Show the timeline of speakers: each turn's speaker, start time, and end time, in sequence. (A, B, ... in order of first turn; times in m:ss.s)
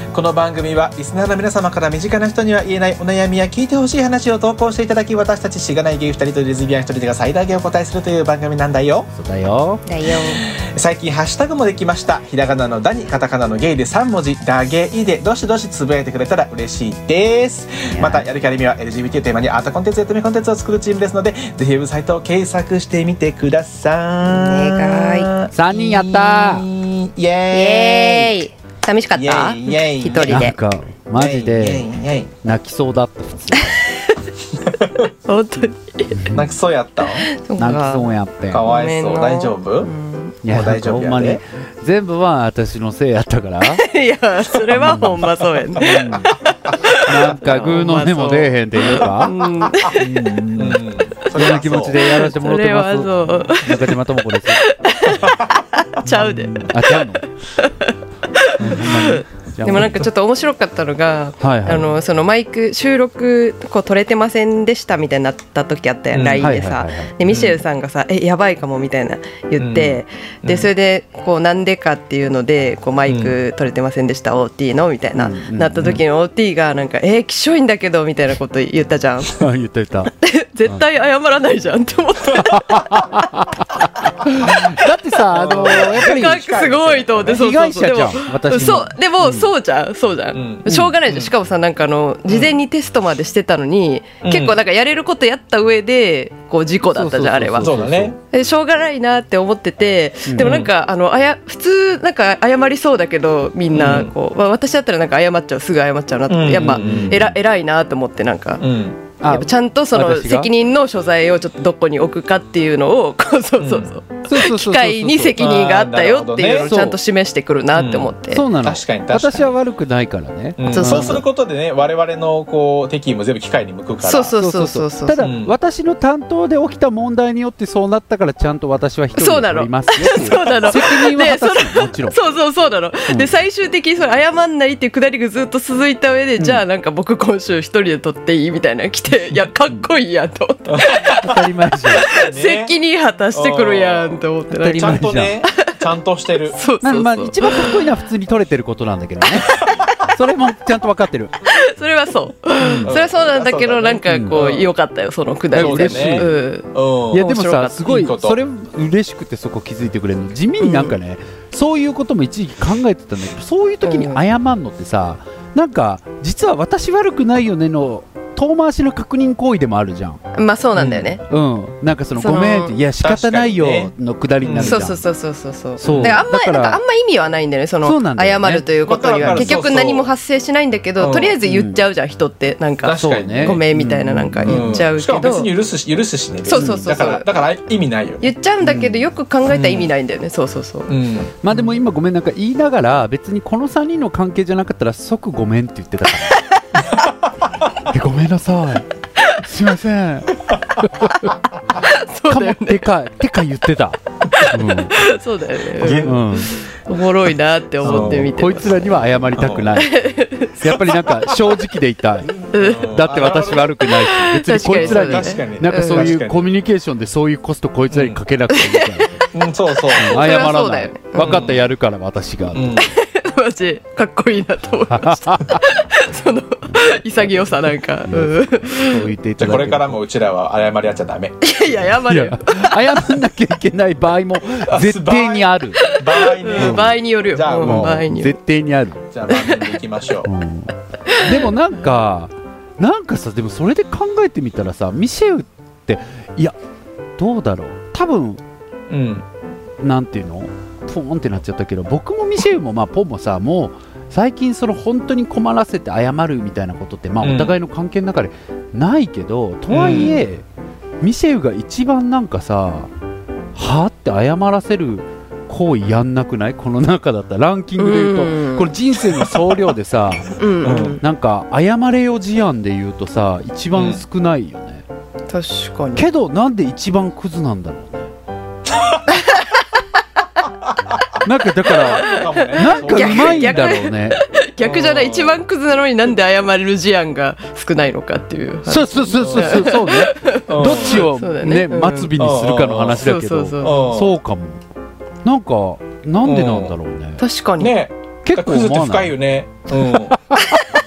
0:00.1-0:09.1 A
0:09.1-0:09.8 B
0:09.8-0:10.4 C
0:10.2-0:28.3 A
0:17.9-0:18.2 B
0:24.2-0:25.3 C
0:25.5-0:26.7 B
0:27.5-0:30.6 C
0:29.1-0:30.5 A
0:30.2-0:31.9 B
0:31.2-0:32.3 A
0:32.4-0:33.8 B
0:34.6-0:35.0 A
0:35.2-0:36.2 C
0:36.1-0:36.6 B
0:36.3-0:37.3 A
0:37.2-0:38.1 C
0:37.6-0:38.7 B
0:38.5-0:39.9 A
0:38.6-0:40.4 C
0:40.4-0:43.8 B
0:40.4-0:41.4 A
0:43.6-0:46.3 C
0:44.7-0:46.3 B
0:45.7-0:47.0 A
0:46.8-0:50.1 C
0:47.0-0:54.6 B
0:49.9-0:52.0 A
0:52.0-1:19.4 C
0:55.0-0:55.6 A
0:56.0-0:57.3 B
0:58.6-1:00.0 B
1:01.4-1:01.9 B
1:06.1-1:06.5 A
1:06.4-1:07.1 B
1:07.2-1:07.6 A
1:09.6-1:10.7 A
1:13.1-1:13.3 A
1:15.2-1:16.0 B
1:19.3-1:20.1 B
1:20.2-1:23.3 C
1:22.4-1:26.5 B
1:24.4-1:24.9 C
1:25.3-1:27.4 A
1:25.4-1:37.7 C
1:27.3-1:29.5 B
1:30.3-1:31.3 A
1:30.7-1:30.9 B
1:34.2-1:34.6 A
1:36.9-1:38.1 B
1:37.6-1:38.2 A
1:38.3-1:48.6 C
1:40.2-1:40.5 B
1:40.4-1:40.7 A
1:43.7-1:44.1 A
1:46.3-1:47.2 A
1:46.6-1:47.3 B
1:48.6-1:49.0 A
1:49.2-1:50.5 B
1:49.2-1:58.4 C
1:53.6-1:53.9 A
1:54.3-1:55.4 B
1:55.4-1:56.8 A
1:56.7-1:57.0 B
1:57.8-1:59.5 A
1:58.3-2:01.2 B
2:00.6-2:04.4 A
2:00.7-2:01.2 C
2:04.0-2:05.2 C
2:04.4-2:12.2 B
2:05.2-2:05.5 A
2:09.1-2:21.2 C
2:16.4-2:16.6 B
2:20.7-2:21.3 A
2:21.2-2:22.0 B
2:22.0-2:22.7 A
2:22.1-2:25.0 C
2:23.3-2:26.6 A
2:24.5-2:25.4 B
2:26.5-2:27.8 C
2:26.8-2:31.3 B
2:29.5-2:29.8 C
2:31.5-2:37.9 C
2:32.8-2:34.7 A
2:34.1-2:34.4 B
2:35.5-2:36.3 B
2:35.5-2:37.3 A
2:37.1-2:50.2 B
2:37.8-2:38.4 A
2:40.6-2:40.9 C
2:43.8-2:44.2 C
2:50.3-2:51.2 C
2:50.8-2:51.1 A
2:51.2-2:55.0 B
2:52.2-2:52.7 C
2:53.0-2:54.9 A
2:54.6-3:05.5 C
2:55.8-2:56.8 B
2:55.8-2:56.2 A
2:57.8-2:58.7 B
2:58.8-3:00.1 A
2:59.2-2:59.6 B
3:01.0-3:01.4 A
3:01.4-3:01.8 B
3:02.8-3:03.7 A
3:02.9-3:04.8 B
3:04.4-3:08.2 A
3:06.5-3:07.3 C
3:06.5-3:07.0 B
3:08.2-3:10.9 C
3:08.6-3:09.8 B
3:10.9-3:11.3 A
3:11.4-3:16.4 B
3:17.9-3:21.3 B
3:21.1-3:22.8 C
3:22.3-3:25.0 B
3:24.4-3:29.0 C
3:25.8-3:26.5 A
3:26.0-3:26.5 B
3:27.8-3:28.3 A
3:27.8-3:30.1 B
3:29.3-3:29.8 A
3:29.7-3:30.7 C
3:30.6-3:32.3 B
3:32.4-3:33.8 A
3:32.5-3:33.0 C
3:32.9-3:39.3 B
3:34.1-3:36.1 C
3:34.7-3:36.5 A
3:37.9-3:38.2 A
3:38.5-3:39.2 C
3:39.3-3:40.4 A
3:39.8-3:41.4 C
3:39.9-3:42.8 B
3:41.2-3:41.6 A
3:42.5-3:42.9 A
3:42.8-3:49.1 C
3:44.9-3:45.6 B
3:46.7-3:50.0 B
3:49.4-3:51.4 A
3:51.4-3:53.0 C
3:52.0-3:55.9 B
3:54.6-3:58.0 A
3:55.8-3:58.4 C
3:56.6-3:57.0 B
3:57.6-3:59.0 B
3:59.1-4:00.3 A
3:59.3-3:59.7 C
4:00.2-4:06.6 B
4:01.1-4:01.4 C
4:07.2-4:08.4 B
4:08.9-4:09.2 A
4:09.8-4:20.4 B
4:17.2-4:17.6 A
4:19.7-4:20.2 A
4:21.0-4:22.9 B
4:23.5-4:34.8 B
4:27.8-4:28.7 C
4:30.4-4:31.0 C
4:30.6-4:31.0 A
4:33.7-4:34.0 A
4:35.3-4:36.1 C
4:36.0-4:38.1 B
4:41.2-4:44.2 B
4:41.6-4:43.8 A
4:41.8-4:52.1 C
4:44.6-4:45.4 A
4:48.7-4:54.6 B
4:49.1-4:49.8 A
4:50.5-4:51.1 A
4:52.2-4:53.1 A
4:53.0-4:53.8 C
4:53.6-4:54.1 A
4:55.2-4:57.2 B
4:56.2-4:56.7 A
4:57.2-4:57.8 C
4:57.6-5:00.2 A
4:58.2-4:59.2 B
5:00.1-5:00.6 B